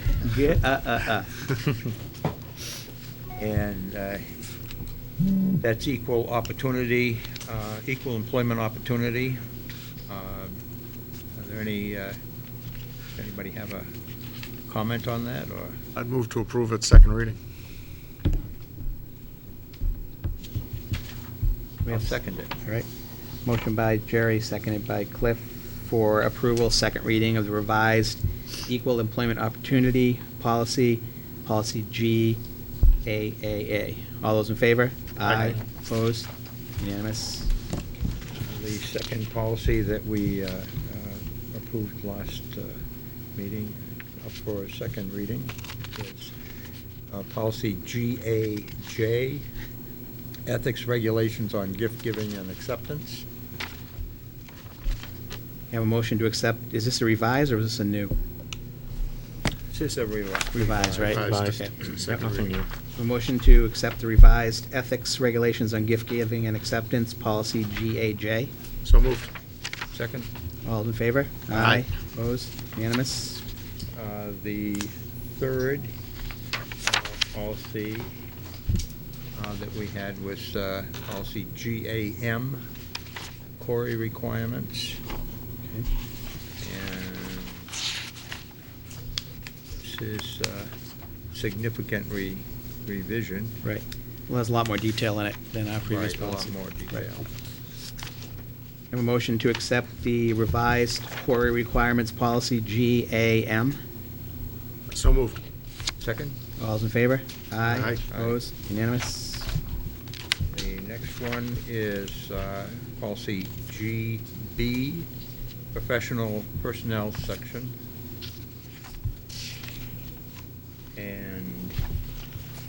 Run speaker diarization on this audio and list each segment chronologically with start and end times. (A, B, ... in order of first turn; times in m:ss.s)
0:00.2-0:01.3 A
0:03.4-0:04.3 B
0:05.6-0:09.4 B
0:10.1-0:10.6 B
0:11.3-0:12.2 B
0:13.1-0:13.9 B
0:14.7-0:15.8 B
0:15.9-0:17.4 C
0:21.8-0:22.9 A
0:21.9-0:22.5 B
0:23.4-0:32.4 A
0:33.0-0:37.5 A
0:35.2-0:35.6 C
0:38.4-0:42.8 B
0:43.3-0:46.3 B
0:47.1-0:49.5 B
0:50.4-0:53.2 B
0:55.7-0:58.1 A
0:59.7-1:01.2 B
1:00.5-1:02.4 A
1:01.0-1:02.6 C
1:02.9-1:08.5 A
1:08.8-1:09.3 C
1:09.9-1:10.3 B
1:10.6-1:13.4 A
1:11.5-1:11.8 C
1:13.9-1:16.0 B
1:16.8-1:18.1 B
1:19.3-1:22.6 B
1:23.5-1:25.0 B
1:26.6-1:27.7 B
1:29.8-1:30.7 B
1:31.3-1:33.6 B
1:33.6-1:37.0 A
1:35.8-1:37.3 B
1:38.9-1:43.8 A
1:44.9-1:45.4 C
1:46.0-1:46.4 B
1:46.6-1:49.5 A
1:47.6-1:48.0 C
1:48.0-1:48.4 B
1:50.5-1:55.1 B
1:55.7-1:57.8 B
2:00.9-2:01.8 B